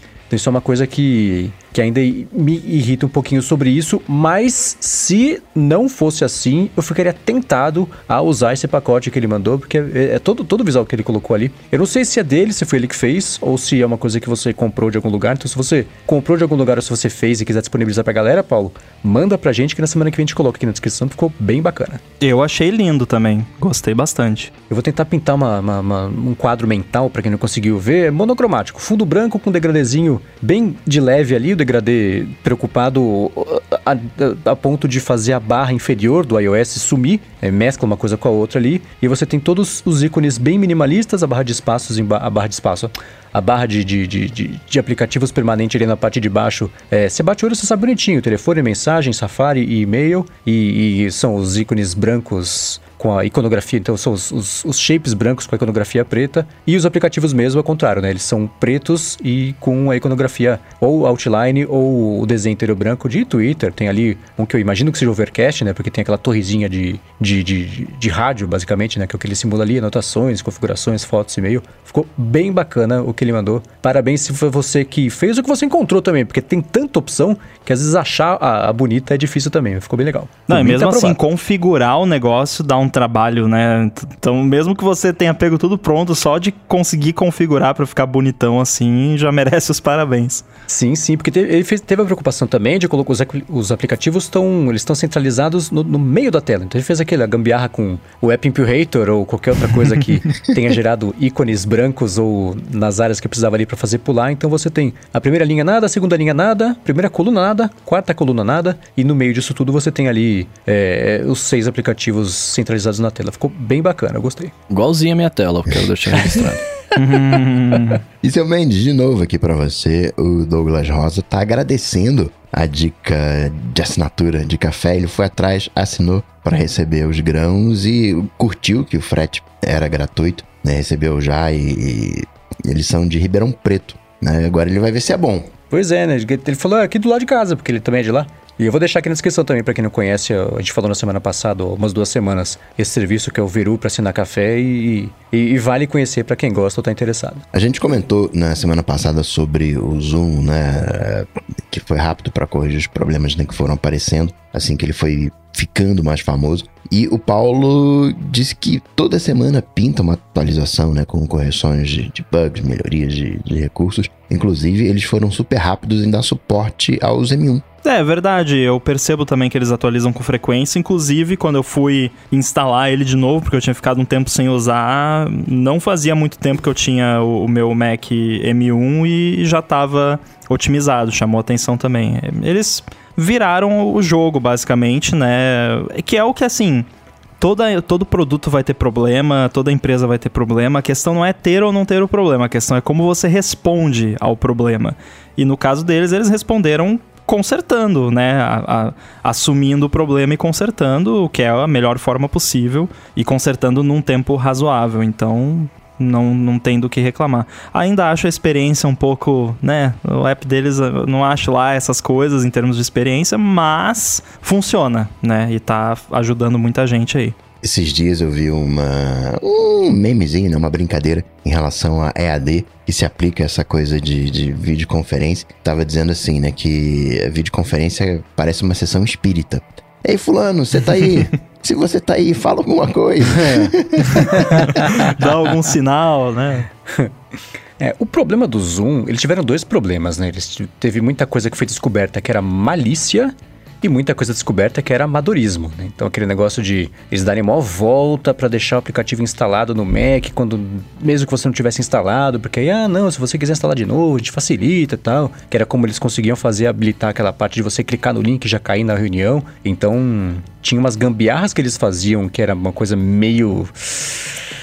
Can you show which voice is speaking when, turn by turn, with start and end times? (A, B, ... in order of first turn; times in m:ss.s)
0:00.3-0:22.0 A
0:22.2-0:24.5 B
0:24.7-1:21.2 A
1:20.5-1:30.4 B
1:30.7-1:54.5 A
1:54.7-1:56.7 C
1:57.0-1:58.0 B
1:58.2-2:15.5 D
2:15.7-2:27.4 A
2:27.5-2:47.6 D
2:47.8-3:06.9 B
3:07.4-3:37.4 B
3:37.6-3:54.8 D
3:53.4-3:54.7 A
3:54.7-3:56.7 B
3:57.8-4:24.4 A